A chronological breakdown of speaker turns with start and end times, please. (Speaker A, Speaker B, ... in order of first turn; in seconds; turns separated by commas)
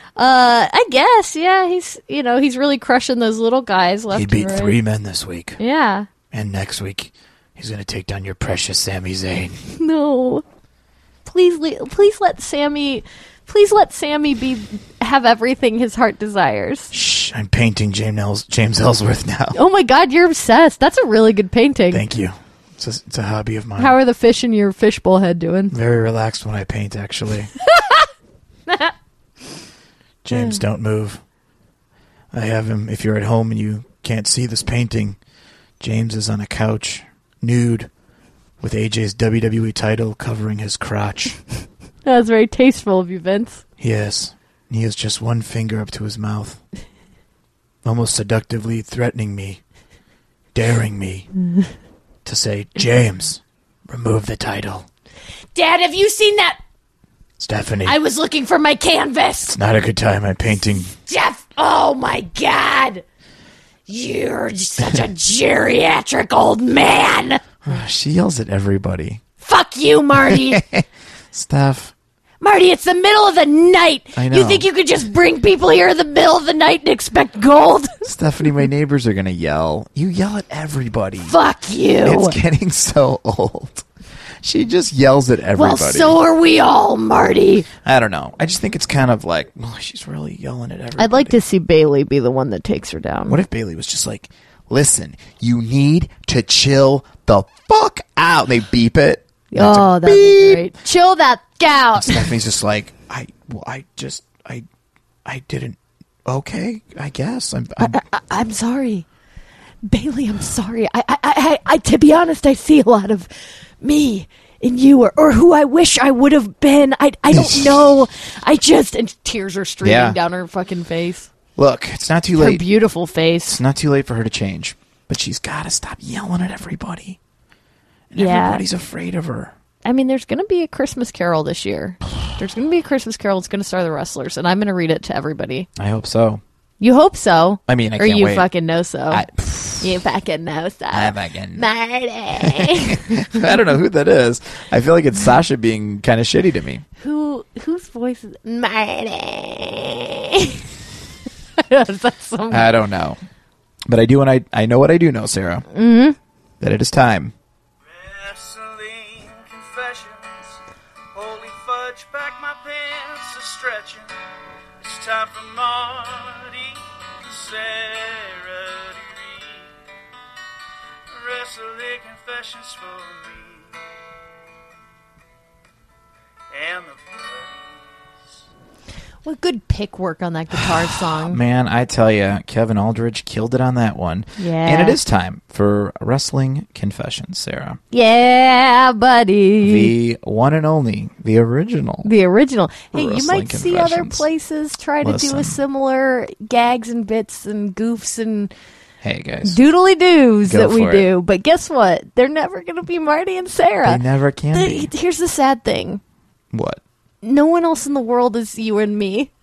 Speaker A: 0.2-4.8, Speaker B: 4.1-5.6, Speaker A: 5.6-6.1, Speaker B: 6.3-9.6, Speaker A: 9.7-10.4, Speaker A: 11.2-16.9, Speaker B: 16.9-19.6, Speaker A: 19.5-22.0, Speaker B: 21.9-23.9, Speaker A: 23.8-25.7, Speaker B: 25.7-27.5, Speaker A: 27.6-28.1, Speaker B: 30.2-31.2, Speaker A: 30.3-30.6, Speaker B: 32.3-35.2, Speaker B: 35.8-37.9, Speaker B: 38.6-41.4, Speaker A: 42.0-43.6, Speaker B: 43.8-46.6, Speaker B: 47.9-49.6, Speaker B: 50.5-51.3, Speaker B: 52.2-54.9, Speaker A: 55.5-56.6, Speaker B: 57.4-58.0, Speaker A: 57.9-59.6, Speaker B: 59.5-60.9, Speaker A: 61.0-63.0, Speaker A: 63.9-67.4, Speaker B: 67.7-69.2, Speaker A: 69.4-70.6, Speaker B: 70.2-71.9, Speaker A: 72.4-78.0, Speaker B: 74.2-74.7, Speaker B: 78.0-81.4, Speaker A: 81.2-82.4, Speaker B: 82.0-83.8, Speaker B: 84.4-86.2, Speaker A: 85.5-87.7, Speaker B: 87.8-91.3, Speaker A: 91.0-93.4, Speaker B: 93.3-100.6, Speaker A: 99.5-102.3, Speaker B: 102.0-104.7, Speaker B: 105.2-108.0, Speaker A: 107.8-109.1, Speaker A: 109.8-113.3, Speaker A: 113.8-121.3, Speaker B: 117.3-117.8, Speaker B: 119.8-120.2, Speaker B: 121.6-122.6, Speaker A: 122.4-123.6, Speaker B: 123.5-127.2, Speaker B: 128.1-129.5, Speaker A: 128.2-128.6, Speaker A: 129.8-135.7, Speaker B: 135.8-136.4, Speaker A: 136.8-139.3, Speaker B: 137.7-138.5, Speaker B: 139.1-139.9, Speaker A: 139.8-143.4, Speaker B: 140.9-141.7, Speaker B: 142.4-146.8, Speaker A: 147.0-150.6, Speaker A: 151.6-152.7, Speaker B: 152.5-153.2, Speaker B: 153.9-155.6, Speaker A: 155.7-156.2, Speaker B: 156.6-157.3, Speaker C: 158.0-160.6, Speaker C: 161.2-164.1, Speaker C: 164.8-169.7, Speaker C: 171.1-173.7, Speaker C: 176.5-177.8, Speaker A: 179.2-181.4, Speaker B: 180.6-187.8, Speaker A: 184.4-185.0, Speaker A: 187.9-189.9, Speaker B: 189.6-192.1, Speaker A: 192.0-198.5, Speaker B: 192.9-194.3, Speaker B: 195.0-195.6, Speaker B: 199.0-199.6, Speaker A: 199.4-204.0, Speaker B: 200.5-201.1, Speaker B: 203.8-204.9, Speaker A: 204.5-206.0, Speaker B: 206.5-206.8, Speaker A: 207.2-209.3